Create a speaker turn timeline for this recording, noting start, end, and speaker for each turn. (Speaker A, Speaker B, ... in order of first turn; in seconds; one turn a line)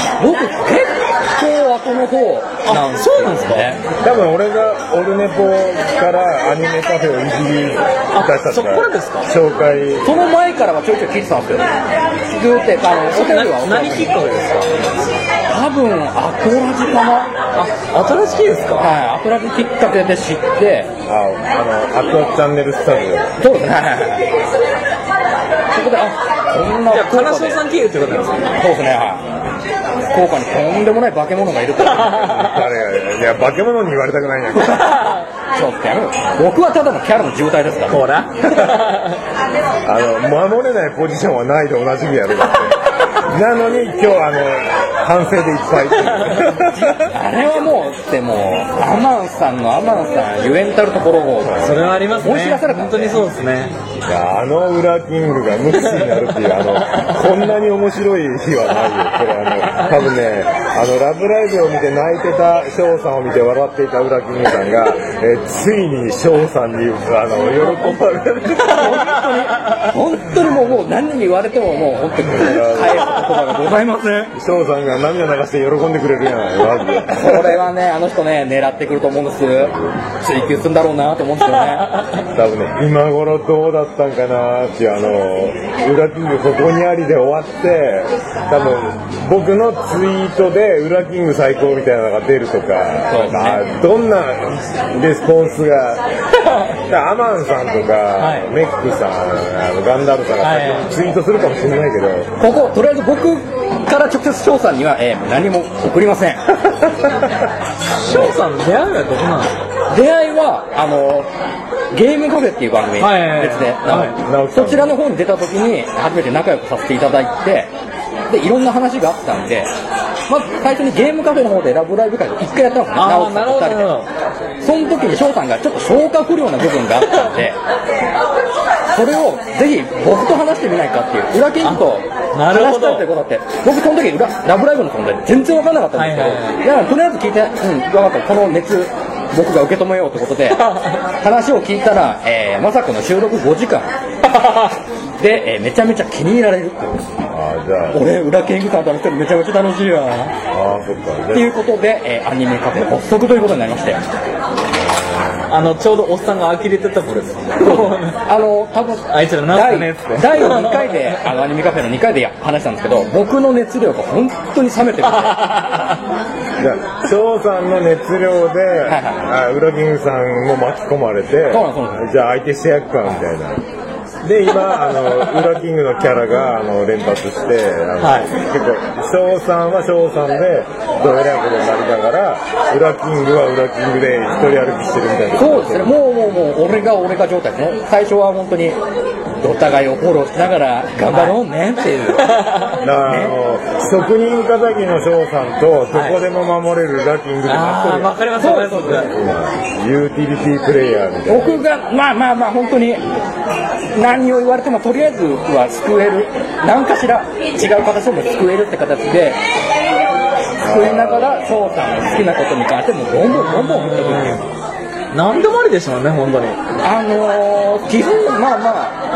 Speaker A: 0.2-3.9
Speaker B: 2.7-3.8
Speaker C: 4.0-10.1
Speaker B: 8.1-9.3
Speaker A: 10.0-11.7
Speaker A: 12.3-14.2
Speaker B: 13.1-14.8
Speaker A: 15.5-17.4
Speaker B: 17.6-18.9
Speaker C: 18.1-18.9
Speaker A: 18.8-20.9
Speaker C: 21.1-23.4
Speaker A: 23.4-24.3
Speaker A: 25.7-27.6
Speaker B: 26.9-28.5
Speaker A: 28.6-29.2
Speaker A: 30.1-32.3
Speaker C: 32.1-35.0
Speaker B: 34.8-35.2
Speaker A: 34.9-38.8
Speaker B: 37.9-39.2
Speaker C: 39.9-47.0
Speaker B: 46.2-46.4
Speaker A: 46.5-53.2
Speaker C: 51.4-52.0
Speaker B: 51.6-53.7
Speaker C: 54.1-69.0
Speaker A: 68.6-74.4
Speaker C: 72.3-73.4
Speaker C: 74.3-77.5
Speaker A: 77.1-82.0
Speaker C: 79.6-80.0
Speaker C: 82.3-96.0
Speaker A: 93.1-93.6
Speaker C: 96.7-102.3
Speaker B: 98.2-98.5
Speaker B: 100.4-100.9
Speaker A: 102.4-106.9
Speaker B: 108.0-109.6
Speaker A: 109.9-111.3
Speaker A: 111.9-117.7
Speaker B: 113.0-114.2
Speaker C: 113.9-114.9
Speaker A: 118.3-119.7
Speaker A: 120.3-123.9
Speaker B: 123.0-124.1
Speaker A: 124.6-127.6
Speaker A: 128.9-143.9
Speaker B: 131.6-133.1
Speaker B: 135.9-136.6
Speaker B: 144.4-144.7
Speaker A: 145.2-147.1
Speaker C: 147.3-148.0
Speaker A: 147.9-150.3
Speaker C: 150.5-151.5
Speaker A: 151.3-154.0
Speaker B: 155.5-158.2
Speaker A: 157.6-165.6
Speaker B: 159.1-161.0
Speaker B: 165.4-165.8
Speaker C: 166.6-173.6
Speaker A: 168.9-169.2
Speaker A: 171.5-172.1
Speaker C: 174.2-185.9
Speaker B: 178.0-178.3
Speaker A: 185.4-188.8
Speaker A: 189.4-192.5
Speaker B: 191.1-191.4
Speaker B: 192.3-192.7
Speaker C: 192.8-198.2
Speaker A: 193.1-193.3
Speaker B: 195.9-196.2
Speaker B: 197.5-199.1
Speaker A: 198.4-199.1
Speaker C: 199.1-201.6
Speaker A: 201.3-203.0
Speaker A: 203.9-209.4
Speaker C: 210.6-211.9
Speaker A: 210.6-214.4
Speaker B: 213.3-214.4
Speaker B: 215.1-216.6
Speaker A: 216.8-219.0